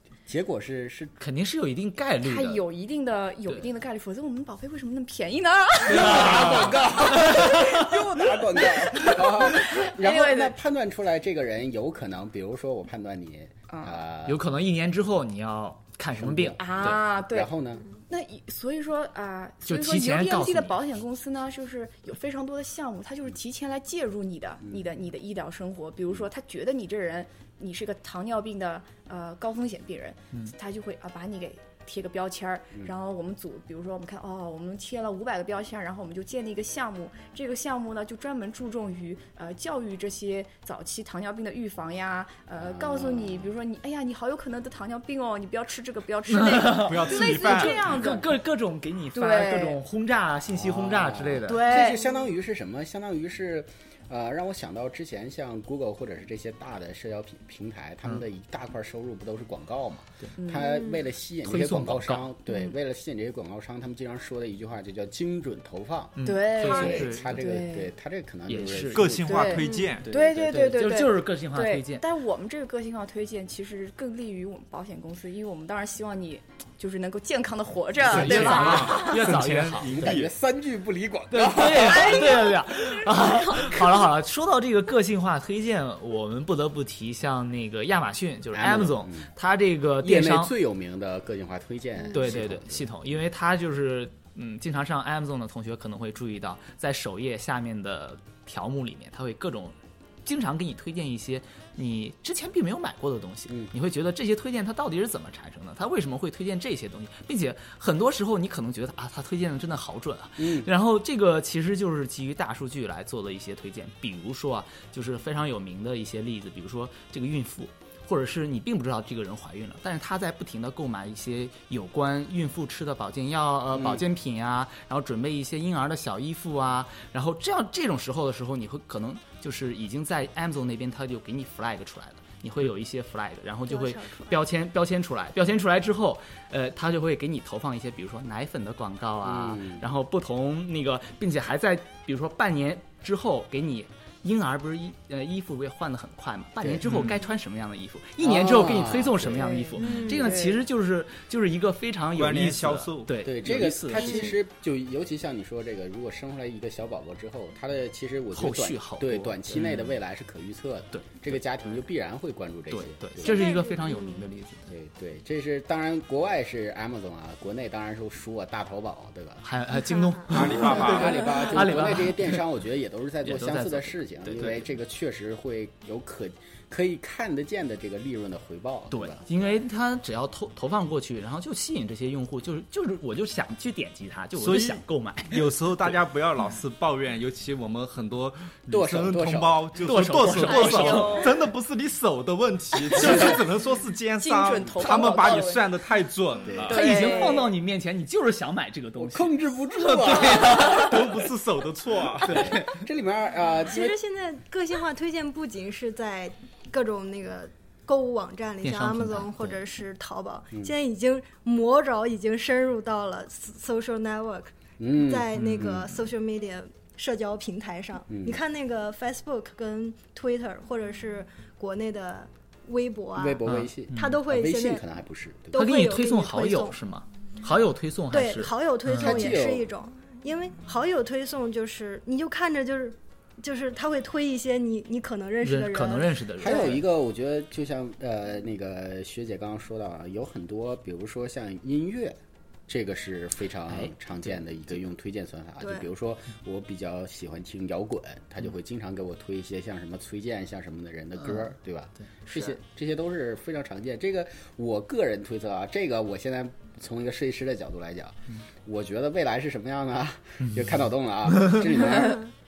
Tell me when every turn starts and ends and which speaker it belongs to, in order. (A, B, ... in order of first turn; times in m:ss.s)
0:00.3-0:01.2 A
0:01.2-0:02.6 B
0:02.2-0:07.8 C
0:05.8-0:14.4 A
0:05.9-0:06.8 B
0:08.4-0:10.6 C
0:13.7-0:14.0 C
0:14.3-0:17.0 B
0:16.2-0:17.8 A
0:16.6-0:48.3 C
0:19.6-0:20.8 B
0:42.6-0:43.5 A
0:46.3-0:51.8 B
0:46.7-0:47.9 D
0:49.2-0:49.8 C
0:50.5-1:09.6 A
0:51.5-0:52.1 C
1:00.4-1:00.8 C
1:00.6-1:01.0 E
1:01.4-1:02.3 B
1:06.2-1:07.4 B
1:06.2-1:07.9 C
1:08.5-1:09.3 B
1:08.9-1:10.2 D
1:09.2-1:19.2 C
1:09.6-1:09.9 E
1:10.1-1:12.0 B
1:18.1-1:20.3 D
1:18.1-1:20.2 B
1:19.8-1:22.3 A
1:21.3-1:30.5 B
1:21.9-1:23.9 C
1:28.5-1:29.3 A
1:30.0-1:32.9 A
1:32.1-2:34.3 B
1:50.4-1:50.7 A
2:03.7-2:04.0 A
2:13.7-2:14.4 E
2:19.2-2:19.8 A
2:26.6-2:26.9 A
2:26.8-2:27.2 D
2:28.2-2:29.5 A
2:29.4-2:30.6 C
2:29.8-2:30.3 E
2:32.1-2:33.2 D
2:33.2-2:43.5 A
2:34.0-2:34.3 E
2:38.3-2:39.9 B
2:40.9-2:41.8 B
2:42.7-2:44.7 B
2:43.2-2:44.3 E
2:44.7-2:49.4 A
2:49.4-2:52.4 B
2:50.0-2:50.2 E
2:50.3-2:51.4 D
2:50.5-2:59.2 A
2:53.2-2:54.7 B
2:58.9-3:05.5 B
3:04.4-3:17.1 D
3:08.7-3:09.7 A
3:09.8-3:11.3 B
3:10.3-3:11.4 C
3:12.9-3:13.3 C
3:14.2-3:15.7 C
3:16.5-3:16.8 A
3:16.7-3:17.5 C
3:16.7-3:21.0 B
3:19.0-3:20.9 A
3:19.9-3:22.5 D
3:22.2-3:24.0 A
3:22.2-3:22.8 B
3:23.6-3:44.8 E
3:28.6-3:29.6 B
3:34.8-3:35.9 A
3:35.4-3:35.8 B
3:38.1-3:38.4 A
3:43.2-3:45.7 A
3:45.5-3:46.8 E
3:45.5-3:49.3 B
3:48.1-3:56.8 E
3:48.9-3:49.7 A
3:55.4-3:56.8 B
3:56.4-4:22.3 A
4:03.7-4:03.9 B
4:05.6-4:05.9 E
4:11.2-4:11.5 B